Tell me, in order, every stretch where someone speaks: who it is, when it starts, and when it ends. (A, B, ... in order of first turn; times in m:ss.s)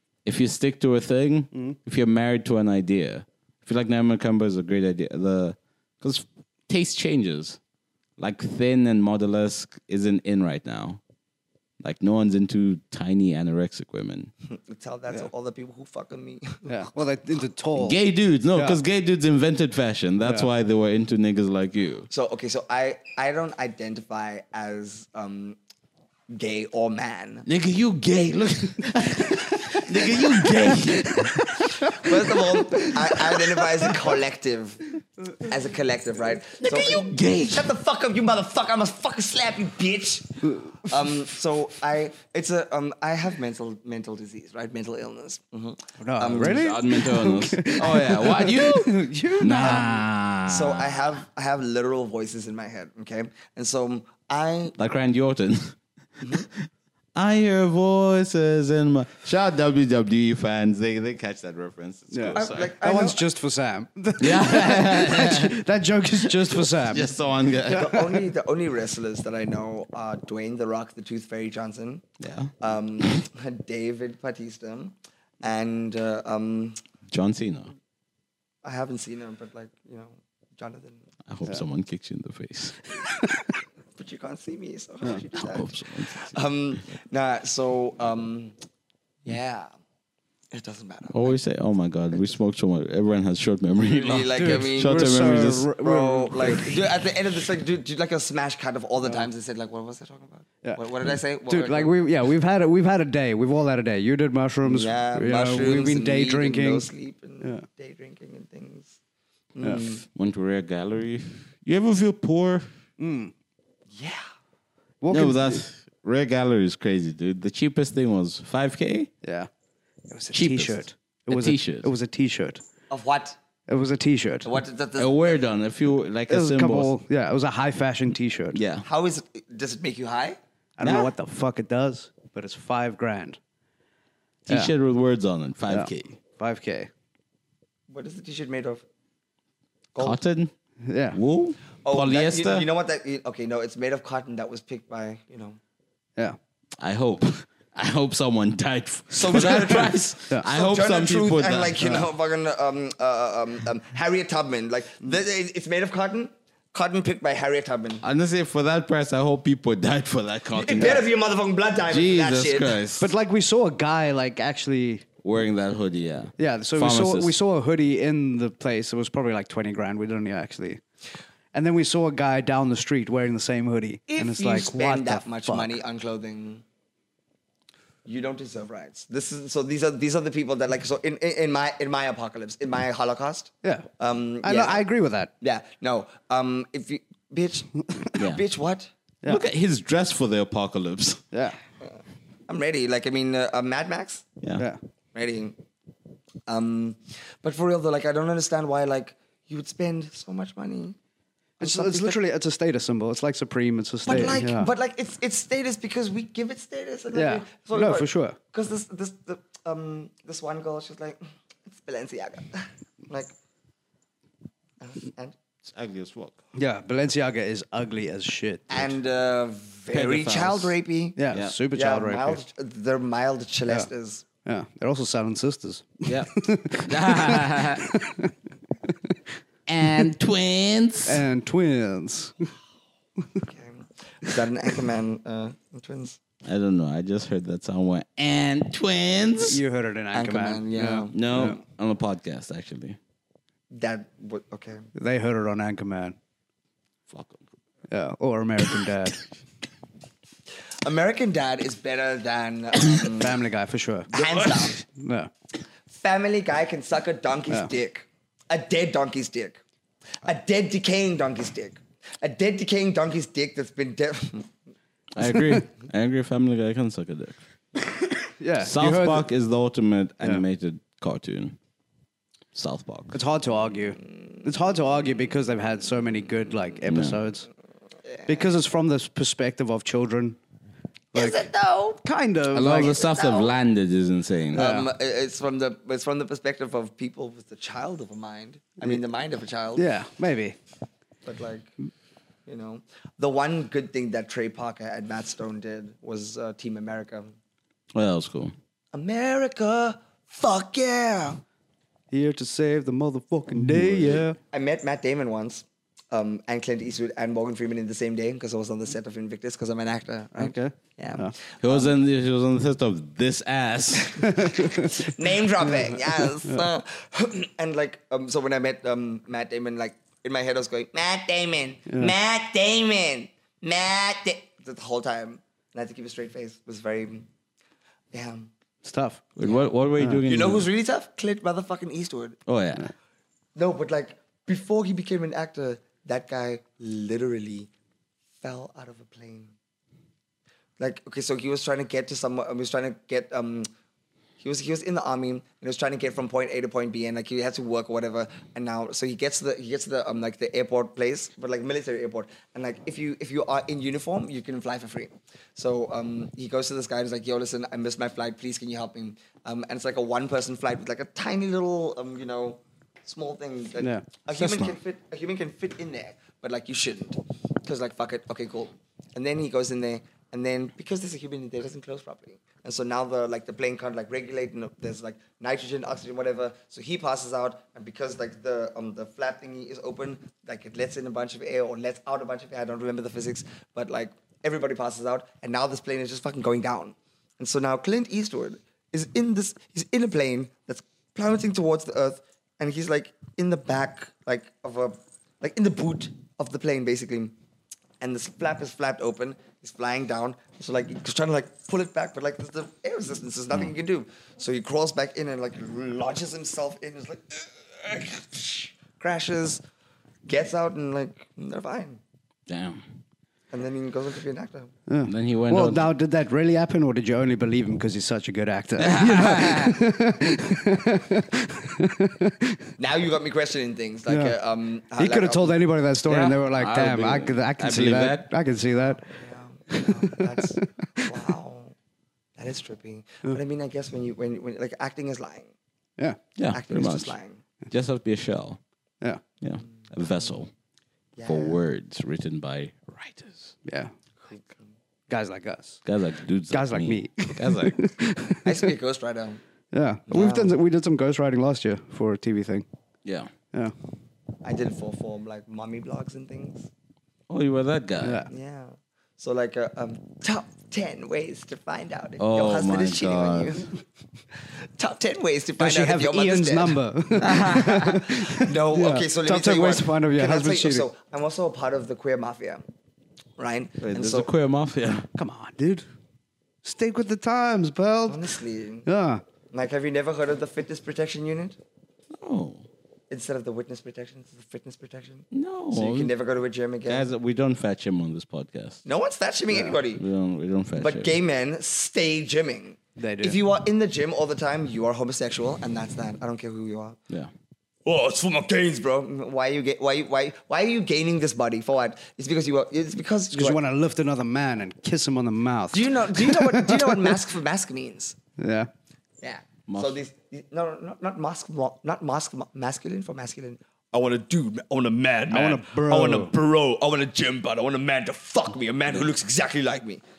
0:00.2-0:07.6 A
0:08.2-0:11.0 A
0:11.8-0:14.3 A
0:14.5-0:16.9 B
0:16.7-0:18.0 C
0:17.8-0:22.1 A
0:18.5-0:18.8 C
0:20.2-0:20.5 C
0:22.1-0:25.6 B
0:26.3-0:27.5 B
0:27.5-0:32.1 A
0:29.7-0:30.7 B
0:31.0-0:33.4 C
0:31.9-0:46.6 B
0:36.6-0:37.7 A
0:40.5-0:40.7 C
0:46.0-0:50.0 C
0:46.3-0:51.2 A
0:50.5-0:54.7 B
0:54.8-1:02.8 A
0:56.2-0:56.5 B
1:02.1-1:07.1 C
1:02.3-1:03.2 B
1:04.2-1:05.5 A
1:06.2-1:08.0 A
1:07.7-1:12.0 B
1:07.7-1:08.2 C
1:12.2-1:13.2 A
1:12.6-1:16.8 B
1:17.1-1:17.7 A
1:18.6-1:21.0 B
1:21.3-1:22.8 A
1:24.0-1:28.6 B
1:25.3-1:26.4 A
1:29.2-1:29.7 B
1:30.5-1:31.4 B
1:31.1-1:35.7 A
1:33.8-1:35.2 B
1:34.3-1:36.8 C
1:35.8-1:41.9 B
1:41.5-1:46.9 C
1:44.6-1:49.0 B
1:49.6-1:50.0 B
1:50.1-1:52.7 A
1:53.0-1:53.3 C
1:53.9-1:54.3 B
1:55.0-1:55.6 C
1:55.1-1:59.1 A
1:59.2-1:59.5 C
2:00.1-2:02.6 C
2:00.3-2:01.9 A
2:02.9-2:03.4 B
2:03.7-2:04.5 C
2:04.4-2:05.3 B
2:05.0-2:06.9 A
2:06.3-2:08.6 C
2:08.5-2:08.9 A
2:08.8-2:10.4 B
2:10.8-2:13.4 C
2:10.8-2:11.1 A
2:14.5-2:16.2 A
2:15.7-2:16.9 C
2:17.9-2:18.8 B
2:20.0-2:20.5 A
2:20.8-2:21.2 C
2:21.1-2:22.7 A
2:21.8-2:25.6 B
2:26.8-2:32.0 A
2:29.1-2:38.0 B
2:38.0-2:41.1 A
2:40.6-2:42.8 B
2:41.9-2:43.1 A
2:43.0-2:45.0 C
2:45.2-2:47.4 A
2:46.4-2:50.8 C
2:51.5-2:55.8 C
2:54.1-2:56.6 B
2:58.0-3:04.8 B
3:03.6-3:03.9 C
3:04.4-3:05.3 C
3:05.4-3:08.9 B
3:08.2-3:08.4 A
3:09.3-3:11.2 A
3:11.3-3:11.6 C
3:11.8-3:14.3 B
3:15.2-3:15.6 B
3:16.5-3:21.0 B
3:21.6-3:22.2 B
3:21.6-3:24.7 C
3:24.1-3:33.3 B
3:27.1-3:28.4 C
3:34.8-3:35.4 B
3:35.6-3:36.4 A
3:36.6-3:39.0 C
3:38.7-3:41.2 B
3:39.9-3:40.8 A
3:41.2-3:42.5 C
3:41.3-3:41.6 A
3:41.7-3:44.2 B
3:44.4-3:48.3 C
3:46.0-3:47.9 A
3:48.9-3:49.1 C
3:49.7-3:51.2 A
3:51.1-3:52.5 C
3:53.4-3:56.2 B
3:56.4-3:59.6 A
3:59.4-4:01.6 C
4:00.1-4:01.5 B
4:01.1-4:03.0 A
4:03.7-4:04.9 B
4:05.0-4:06.2 C
4:07.1-4:07.5 A
4:07.9-4:09.2 C
4:10.8-4:13.4 B
4:13.1-4:14.1 C
4:14.1-4:14.8 B
4:14.1-4:14.7 A
4:14.8-4:15.3 C
4:15.9-4:19.6 B
4:20.2-4:24.5 B
4:25.1-4:27.4 A
4:25.2-4:25.6 C
4:28.4-4:29.3 C
4:28.6-4:31.6 A
4:32.5-4:33.2 A
4:33.1-4:37.5 C
4:36.8-4:37.2 A
4:38.1-4:38.5 B
4:38.3-4:40.4 C
4:41.1-4:42.0 B
4:41.2-4:41.4 C
4:42.0-4:43.0 C
4:42.5-4:44.7 A
4:42.6-4:43.6 B
4:44.5-4:44.9 C
4:44.5-4:49.9 B
4:49.8-4:50.6 C
4:51.2-4:51.7 B
4:52.5-4:57.3 B
4:57.9-4:58.5 A
4:58.9-5:01.4 B
5:02.1-5:04.4 C
5:03.8-5:11.9 B
5:10.4-5:11.4 C
5:11.6-5:14.5 A
5:14.2-5:14.9 C
5:14.6-5:27.3 B
5:15.6-5:16.6 C
5:21.9-5:22.1 C
5:28.1-5:28.5 B
5:28.8-5:29.2 C
5:29.4-5:30.7 A
5:30.0-5:30.2 C
5:30.3-5:32.4 B
5:32.5-5:32.9 A
5:33.6-5:37.7 B
5:38.4-5:39.5 B
5:40.8-5:43.7 B
5:44.4-6:37.4 B
6:03.8-6:04.1 C
6:04.4-6:04.8 A
6:38.0-6:49.6 B
6:50.3-6:52.0 B
6:52.5-6:52.8 A
6:53.5-6:54.7 B
6:54.9-7:02.7 C
6:55.1-6:55.9 A
6:58.8-6:59.8 A
7:02.8-7:05.6 B
7:04.1-7:04.4 C
7:05.0-7:09.0 C
7:06.1-7:08.3 A
7:09.0-7:11.8 B
7:09.7-7:11.2 C
7:12.4-7:15.5 B
7:16.4-7:17.2 A
7:16.5-7:17.4 B
7:17.7-7:18.6 A
7:19.4-7:20.5 A
7:21.2-7:21.6 B
7:21.2-7:23.5 A
7:23.6-7:23.9 C
7:25.1-7:25.8 C
7:25.8-7:27.8 A
7:26.5-7:28.7 C
7:28.4-7:29.4 B
7:29.7-7:32.7 C
7:30.1-7:30.6 B
7:33.0-7:33.3 A
7:34.4-7:36.7 B
7:37.3-7:38.3 A
7:38.0-7:38.3 C
7:38.3-7:43.7 B
7:42.2-7:43.7 A
7:44.6-7:52.7 B
7:45.6-7:50.9 C
7:47.2-7:48.0 A
7:53.4-7:54.3 B
7:53.8-7:55.1 A
7:55.2-7:55.8 C
7:56.6-7:58.3 C
7:58.1-7:58.9 B
7:58.8-7:59.2 C
7:59.5-8:01.6 B
8:02.1-8:02.7 A
8:03.1-8:07.1 B
8:05.3-8:06.1 A
8:06.9-8:08.8 A
8:08.9-8:10.0 B
8:09.5-8:09.8 C
8:09.9-8:11.2 A
8:10.8-8:17.0 B
8:13.0-8:13.4 C
8:17.9-8:23.6 B
8:23.3-8:27.1 C
8:25.7-8:28.2 B
8:28.4-8:28.7 C
8:29.2-8:40.0 B
8:29.7-8:30.0 A
8:35.3-8:36.3 C